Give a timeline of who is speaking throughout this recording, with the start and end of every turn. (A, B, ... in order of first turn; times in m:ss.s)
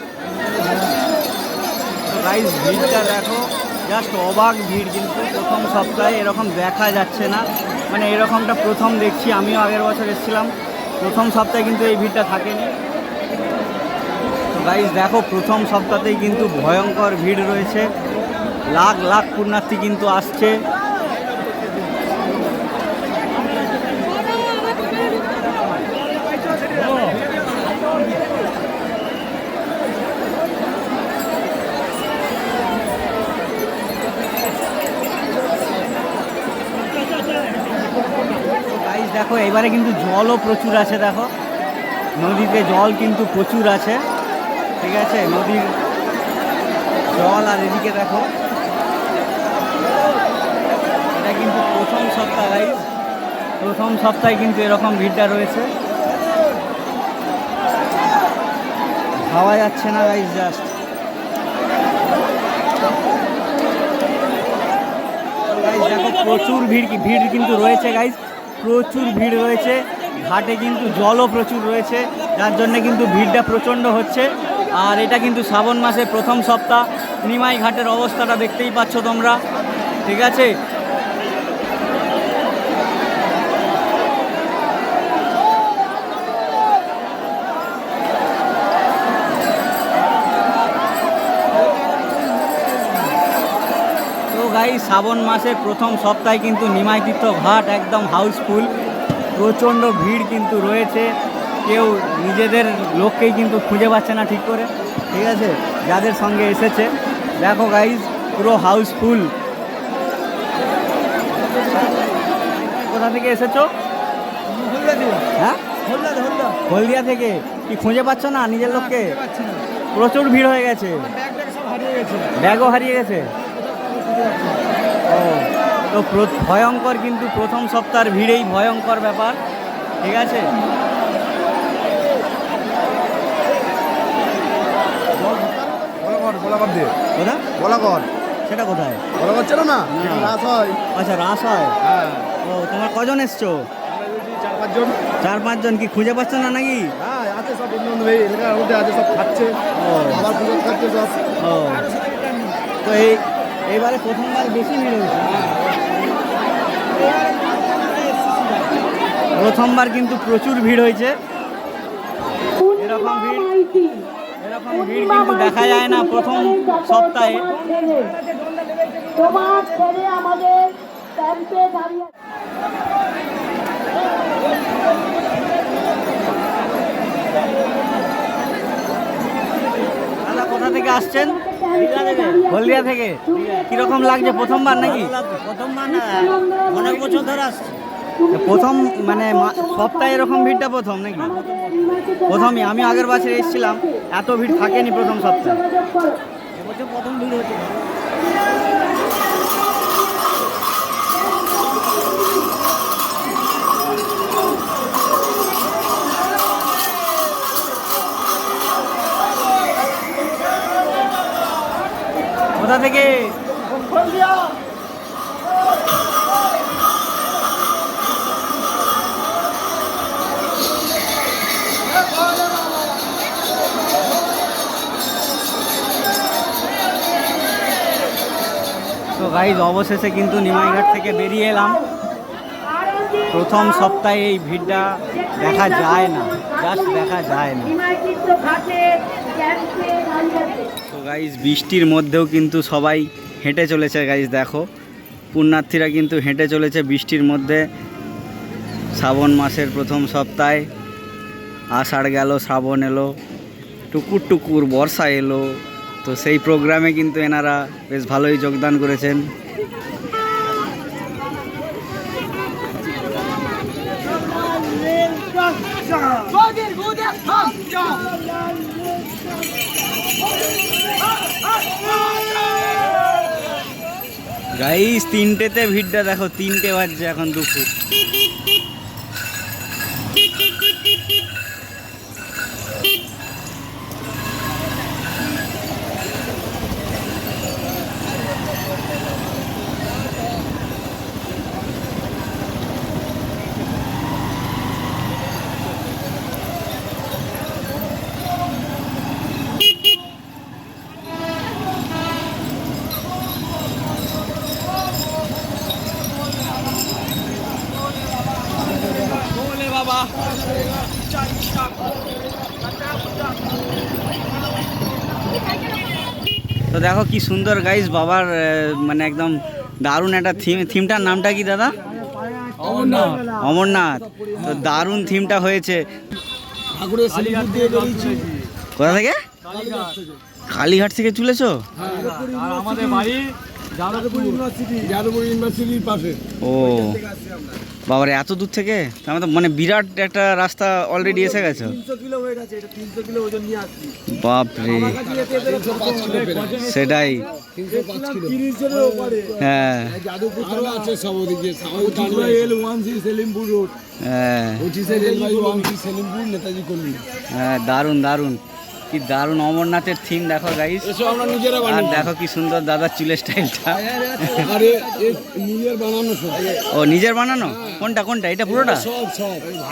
0:02.1-0:12.7 A
0:14.5-0:17.9 A
0:18.7-0:20.6 A
0:38.7-0:41.3 A
0:42.2-0:44.0 A
0:44.8-0:45.8 A
0:47.1-0:48.3 A
0:51.1-0:52.8 A
0:53.6-0:55.7 A
0:59.2-1:00.7 A
1:05.5-1:19.4 A
1:20.1-1:20.6 A
1:34.3-1:38.7 A
1:39.4-1:41.1 A
1:41.6-1:49.3 A
1:52.6-1:53.7 A
1:55.4-1:55.6 A
1:56.7-1:59.2 A
1:59.9-2:01.1 A
2:02.4-2:03.3 A
2:05.1-2:09.4 A
2:10.0-2:10.5 A
2:15.5-2:16.9 B
2:17.2-2:19.0 A
2:19.3-2:19.8 B
2:19.9-2:20.4 A
2:20.4-2:20.8 B
2:20.9-2:21.8 A
2:22.4-2:23.7 A
2:24.2-2:24.9 B
2:25.2-2:26.9 A
2:27.1-2:29.6 B
2:29.7-2:30.4 A
2:30.4-2:31.1 B
2:31.4-2:31.9 A
2:32.8-2:35.6 A
2:39.4-2:41.2 A
2:42.7-2:43.6 A
2:43.7-2:44.1 C
2:44.4-2:47.7 A
2:47.7-2:48.2 C
2:49.2-2:52.0 C
3:00.2-3:15.7 A
3:15.9-3:16.1 C
3:16.8-3:17.6 A
3:32.6-3:33.4 A
3:49.2-3:51.9 A
3:53.3-3:57.8 A
3:57.9-4:00.6 C
4:00.9-4:04.7 A
4:05.3-4:07.6 A
4:08.9-4:10.7 A
4:11.7-4:13.1 A
4:13.9-4:19.3 A
4:34.6-4:37.7 A
5:16.7-5:21.8 A
5:22.6-5:23.2 B
5:23.0-5:25.9 A
5:26.8-5:28.3 B
5:28.8-5:29.7 A
5:29.6-5:30.0 B
5:30.5-5:33.3 A
5:31.9-5:32.5 B
5:33.8-5:34.1 A
5:33.9-5:36.2 B
5:36.4-5:37.0 A
5:37.9-5:41.8 A
5:42.3-5:43.7 B
5:44.1-5:45.0 A
5:45.2-5:46.5 B
5:46.4-5:47.3 A
5:47.6-5:49.3 B
5:49.4-5:50.1 A
5:50.2-5:53.7 B
5:54.0-5:54.8 A
5:54.8-5:57.0 B
5:57.3-6:01.0 A
6:01.1-6:01.6 B
6:01.5-6:04.6 A
6:04.4-6:06.4 B
6:06.7-6:08.9 A
6:09.2-6:09.5 B